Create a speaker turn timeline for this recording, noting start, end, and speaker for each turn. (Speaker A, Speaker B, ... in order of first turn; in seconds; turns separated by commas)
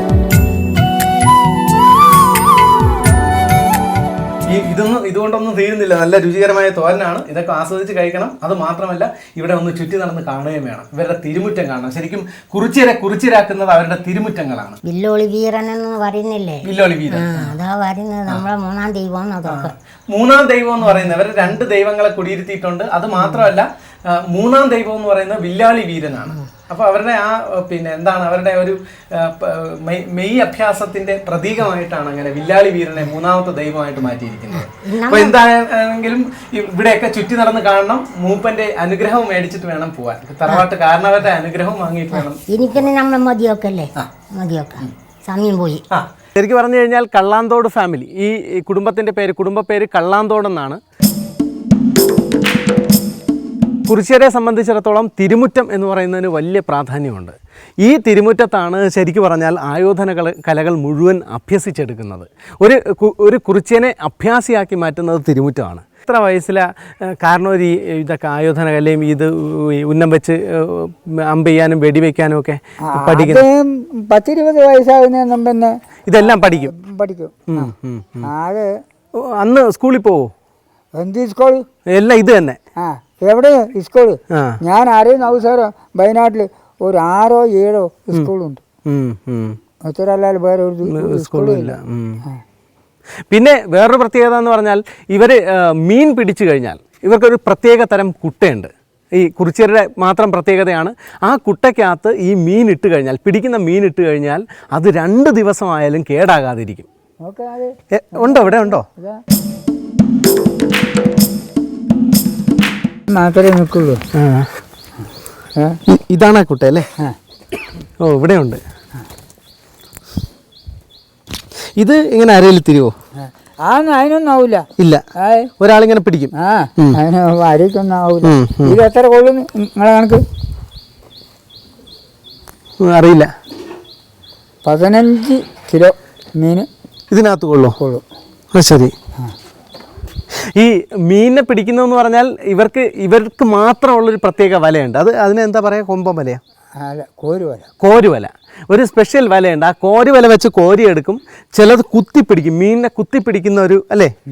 Speaker A: 4.5-14.8, Speaker B: 14.8-19.7, Speaker A: 16.6-17.5, Speaker A: 19.5-42.9, Speaker B: 23.2-23.4, Speaker B: 34.5-35.4, Speaker B: 42.1-45.8, Speaker A: 45.9-50.8, Speaker A: 53.9-66.7, Speaker A: 67.2-73.4, Speaker C: 72.9-77.7, Speaker A: 76.0-76.7, Speaker A: 77.5-78.3, Speaker C: 78.2-78.7, Speaker A: 79.4-80.3, Speaker C: 81.0-81.6, Speaker A: 81.9-82.6, Speaker C: 82.8-88.6, Speaker A: 84.3-84.6, Speaker A: 88.8-89.6, Speaker C: 89.9-92.4, Speaker A: 90.9-92.2, Speaker A: 93.3-106.9, Speaker C: 107.2-109.2, Speaker A: 107.9-108.8, Speaker C: 113.1-114.0, Speaker A: 114.1-114.5, Speaker A: 115.9-116.9, Speaker A: 118.0-118.6, Speaker A: 121.8-122.9, Speaker C: 123.2-124.7, Speaker A: 124.8-125.0, Speaker C: 125.2-125.5, Speaker A: 125.6-127.0, Speaker C: 126.4-130.2, Speaker A: 128.2-128.8, Speaker A: 132.8-133.3, Speaker C: 134.6-136.7, Speaker A: 137.1-137.8, Speaker C: 137.8-138.0, Speaker A: 138.5-138.9, Speaker A: 140.6-146.4, Speaker C: 146.8-147.7, Speaker A: 147.8-154.1